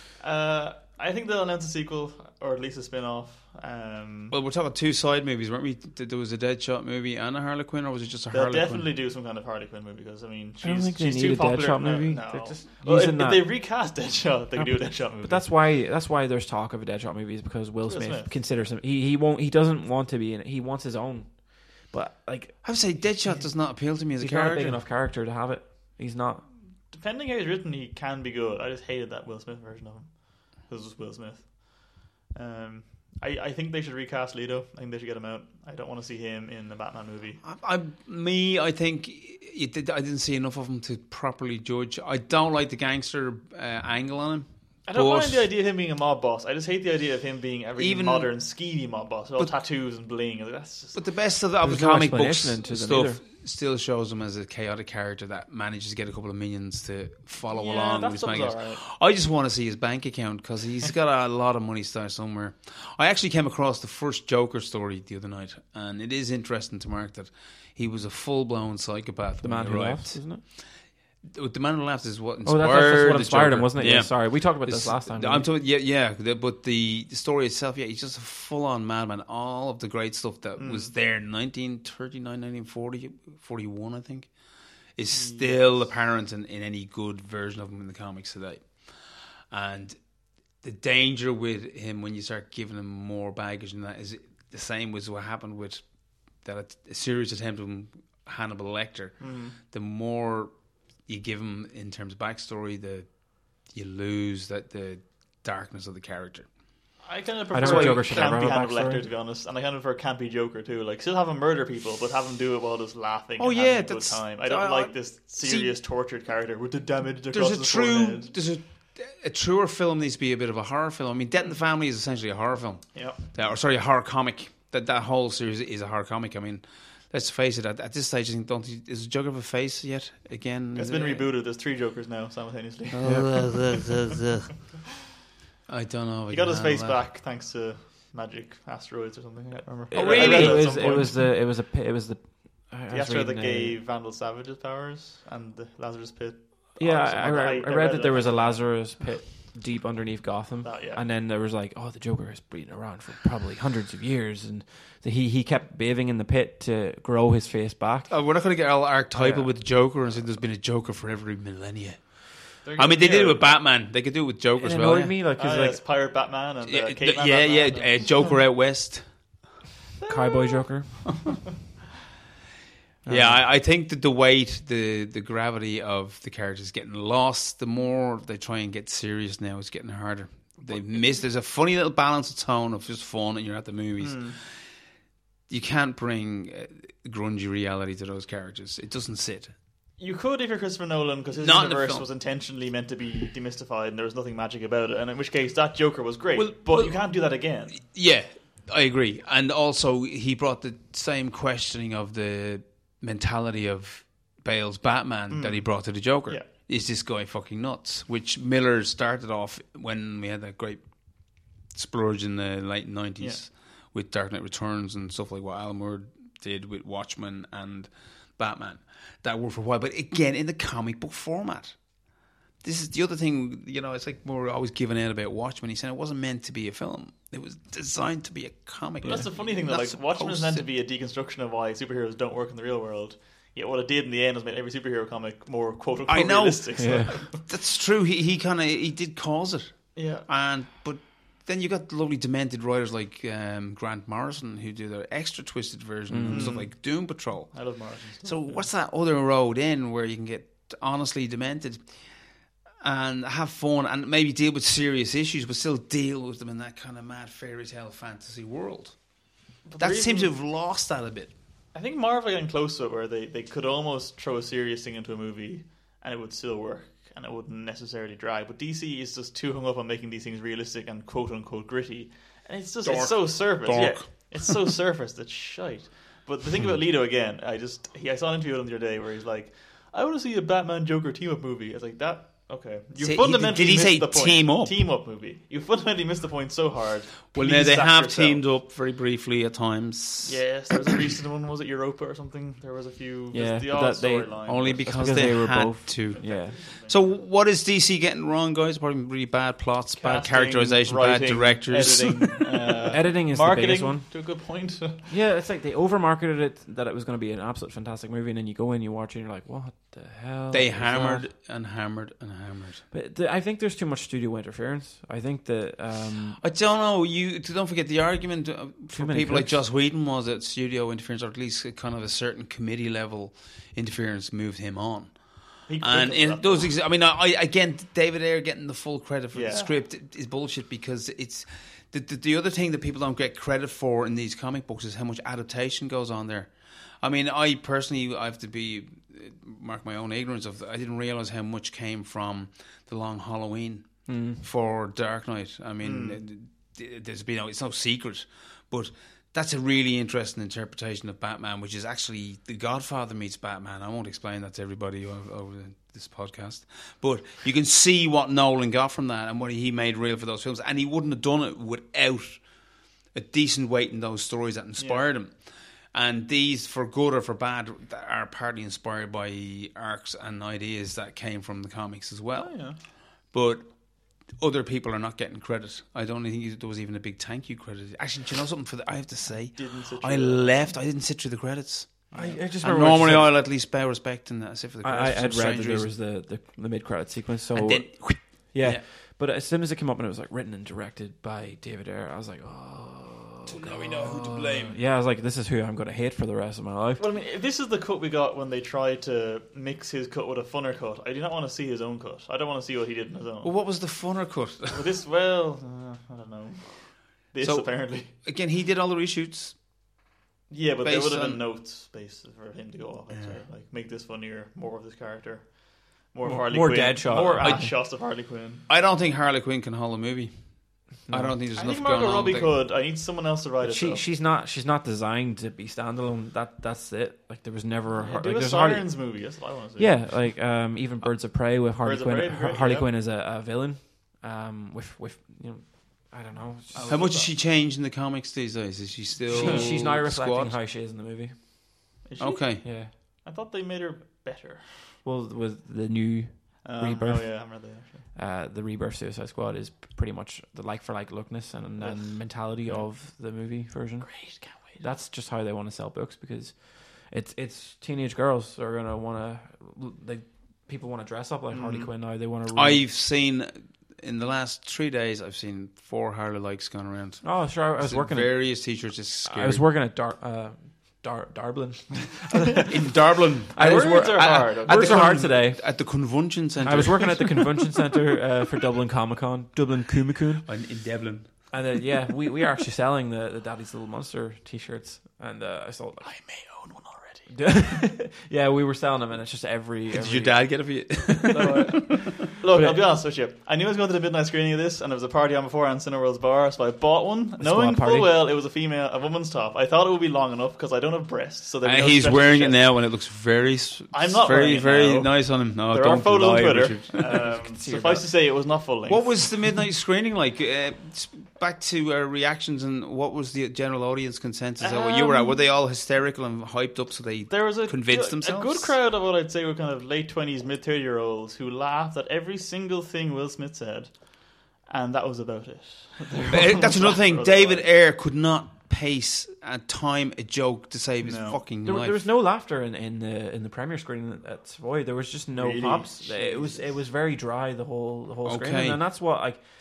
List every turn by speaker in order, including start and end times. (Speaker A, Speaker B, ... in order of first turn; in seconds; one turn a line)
Speaker A: 0.2-4.3
Speaker B: 4.3-8.9
Speaker A: 8.3-15.5
Speaker C: 10.6-13.5
Speaker C: 14.5-22.9
Speaker A: 17.9-18.4
Speaker B: 22.6-24.8
Speaker C: 24.2-26.4
Speaker A: 26.9-37.4
Speaker B: 37.4-45.5
Speaker A: 44.9-51.1
Speaker B: 47.8-48.3
Speaker B: 50.9-70.5
Speaker C: 51.6-53.2
Speaker A: 57.5-58.8
Speaker C: 69.4-70.4
Speaker B: 71.2-84.3
Speaker C: 72.4-75.5
Speaker A: 80.6-80.9
Speaker B: 85.0-90.0
Speaker A: 85.1-85.8
Speaker B: 90.6-95.8
Speaker B: 96.4-100.5
Speaker A: 99.2-99.6
Speaker B: 101.0-103.1
Speaker B: 103.7-106.5
Speaker A: 107.0-118.3
Speaker C: 107.5-109.0
Speaker B: 107.6-108.3
Speaker B: 113.4-115.7
Speaker B: 117.3-131.2
Speaker A: 122.9-123.2
Speaker A: 130.7-133.9
Speaker B: 132.9-134.5
Speaker C: 133.0-133.3
Speaker B: 135.7-137.0
Speaker A: 136.3-141.3
Speaker C: 139.9-143.8
Speaker B: 139.9-141.0
Speaker A: 142.9-148.6
Speaker C: 146.8-158.1
Speaker A: 150.6-151.0
Speaker B: 158.1-165.2
Speaker C: 159.1-159.5
Speaker A: 162.6-163.5
Speaker C: 164.6-165.8
Speaker A: 165.4-168.3
Speaker B: 166.6-169.0
Speaker A: 170.0-170.6
Speaker C: 170.1-171.1
Speaker C: 173.0-173.4
Speaker B: 173.1-184.4
Speaker A: 184.0-184.4
Speaker B: 185.5-189.5
Speaker A: 190.0-197.8
Speaker B: 191.4-192.1
Speaker B: 196.3-197.0
Speaker B: 197.8-210.8
Speaker A: 205.3-206.5
Speaker B: 211.7-221.8
Speaker B: 222.6-230.6
Speaker A: 229.0-237.4
Speaker B: 236.1-251.9
Speaker C: 236.8-237.1
Speaker A: 239.9-240.3
Speaker C: 246.1-246.5
Speaker A: 246.3-248.7
Speaker B: 252.8-259.0
Speaker A: 259.6-260.3
Speaker B: 259.8-261.3
Speaker A: 261.7-288.5
Speaker B: 272.8-274.5
Speaker B: 283.0-284.7
Speaker B: 287.3-290.5
Speaker A: 290.2-295.0
Speaker C: 293.3-296.6
Speaker B: 294.4-302.8
Speaker A: 296.1-297.1
Speaker A: 300.0-305.1
Speaker C: 302.9-304.1
Speaker C: 305.1-311.3
Speaker B: 310.5-312.8
Speaker C: 312.9-316.4
Speaker B: 316.4-362.4
Speaker C: 318.9-319.6
Speaker A: 325.7-326.7
Speaker A: 329.3-329.7
Speaker C: 344.1-344.4
Speaker A: 345.8-346.2
Speaker B: 363.1-372.6
Speaker A: 364.8-365.0
Speaker A: 372.3-372.8
Speaker B: 373.3-373.8
Speaker B: 374.3-385.9
Speaker A: 379.5-380.7
Speaker A: 382.1-382.4
Speaker C: 382.1-383.4
Speaker C: 384.8-397.0
Speaker B: 387.5-388.8
Speaker B: 393.4-394.8
Speaker A: 397.0-403.5
Speaker B: 403.4-404.8
Speaker A: 404.7-408.1
Speaker B: 407.4-409.6
Speaker A: 410.5-418.6
Speaker B: 410.8-411.4
Speaker B: 413.1-413.4
Speaker C: 416.2-417.7
Speaker B: 417.4-417.7
Speaker B: 418.7-422.6
Speaker C: 421.1-421.4
Speaker A: 421.5-424.0
Speaker C: 423.6-428.9
Speaker A: 428.0-430.2
Speaker C: 429.8-437.1
Speaker A: 431.8-432.9
Speaker A: 436.7-437.3
Speaker B: 436.8-440.6
Speaker C: 439.3-441.3
Speaker A: 439.4-439.7
Speaker A: 442.0-444.9
Speaker B: 442.2-442.6
Speaker C: 442.6-442.9
Speaker C: 445.0-447.6
Speaker A: 446.6-448.0
Speaker C: 448.1-462.9
Speaker A: 451.8-452.8
Speaker A: 454.0-454.8
Speaker A: 461.5-461.9
Speaker B: 462.5-469.6
Speaker C: 467.2-472.7
Speaker B: 472.7-477.4
Speaker A: 473.6-475.3
Speaker C: 473.6-475.9
Speaker C: 476.6-480.5
Speaker B: 480.4-481.3
Speaker C: 481.5-486.1
Speaker A: 486.0-487.3
Speaker C: 487.3-492.8
Speaker B: 489.9-492.0
Speaker A: 491.3-502.7
Speaker C: 497.4-498.1
Speaker B: 501.6-507.3
Speaker A: 503.9-509.2
Speaker C: 507.0-508.1
Speaker B: 508.9-518.7
Speaker A: 514.6-515.4
Speaker A: 517.3-527.7
Speaker B: 526.3-532.0
Speaker A: 531.0-531.4
Speaker C: 531.6-539.4
Speaker A: 535.3-536.7
Speaker B: 538.2-538.8